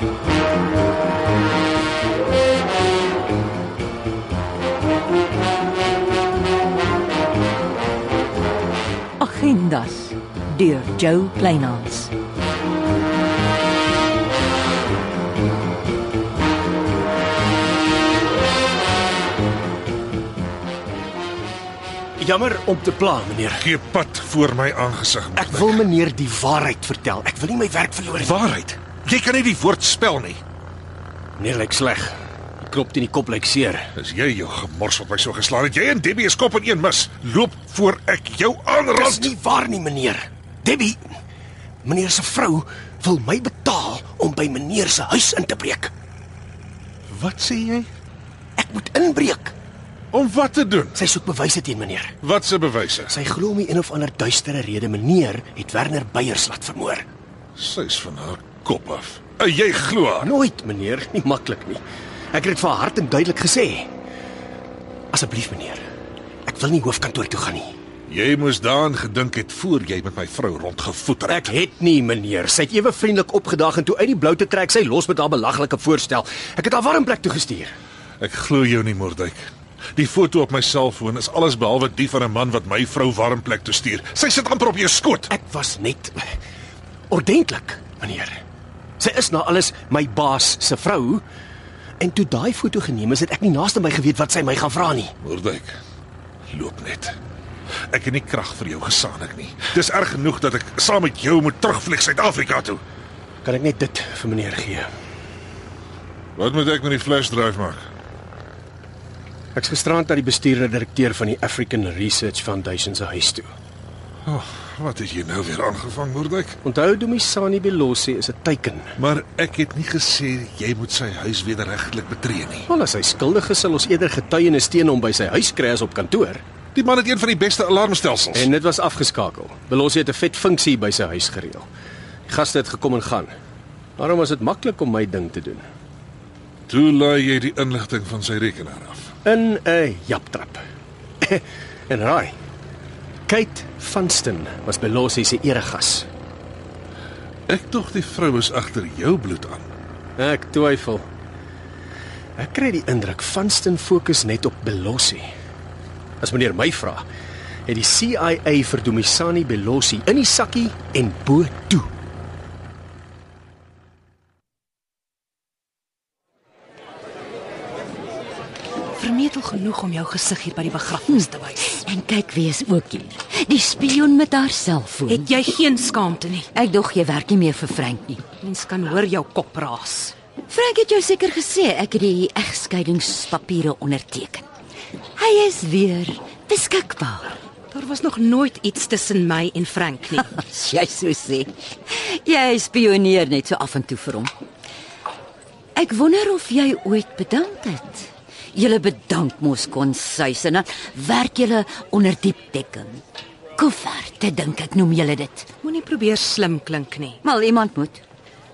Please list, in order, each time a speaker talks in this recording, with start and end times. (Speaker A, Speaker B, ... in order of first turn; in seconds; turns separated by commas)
Speaker A: 9.2-12.1, Speaker B: 22.2-23.6, Speaker C: 23.6-25.9, Speaker B: 25.4-28.3, Speaker C: 28.2-30.4, Speaker B: 31.4-33.8, Speaker C: 34.0-39.3, Speaker B: 39.0-41.0, Speaker B: 41.8-45.9, Speaker C: 47.1-47.9, Speaker B: 48.6-49.5, Speaker C: 50.1-51.0, Speaker B: 51.0-52.1, Speaker C: 52.2-53.1, Speaker B: 53.1-57.0, Speaker C: 57.5-60.3, Speaker B: 60.2-61.8, Speaker B: 62.3-63.9, Speaker B: 65.1-65.8, Speaker B: 66.5-67.7, Speaker C: 68.1-71.5, Speaker B: 71.3-77.7, Speaker C: 78.2-79.4, Speaker C: 80.0-85.3, Speaker B: 85.3-86.2, Speaker B: 87.1-88.3, Speaker B: 89.0-91.2, Speaker B: 92.0-95.1, Speaker C: 95.2-95.8, Speaker C: 96.5-97.1, Speaker C: 97.9-102.8, Speaker B: 103.4-104.9, Speaker C: 106.3-107.8, Speaker B: 109.6-113.5, Speaker C: 114.2-116.6, Speaker B: 116.7-118.8, Speaker C: 119.0-122.7, Speaker B: 122.7-126.4, Speaker C: 126.7-128.5, Speaker B: 128.3-131.7, Speaker B: 132.3-133.3, Speaker B: 134.0-135.6, Speaker C: 136.7-139.1, Speaker B: 139.2-140.6, Speaker B: 141.2-142.3, Speaker B: 143.3-146.1, Speaker C: 147.5-149.7, Speaker B: 150.2-151.0, Speaker B: 152.4-155.2, Speaker B: 156.2-157.0, Speaker B: 157.7-161.8, Speaker D: 169.0-171.6, Speaker E: 171.2-175.3, Speaker D: 175.1-176.5, Speaker E: 176.5-178.2, Speaker D: 178.4-180.1, Speaker E: 180.5-184.4, Speaker E: 185.2-187.4, Speaker D: 187.7-190.2, Speaker E: 190.3-194.3, Speaker E: 195.8-203.0, Speaker E: 203.6-205.5, Speaker D: 205.6-207.2, Speaker E: 207.2-208.0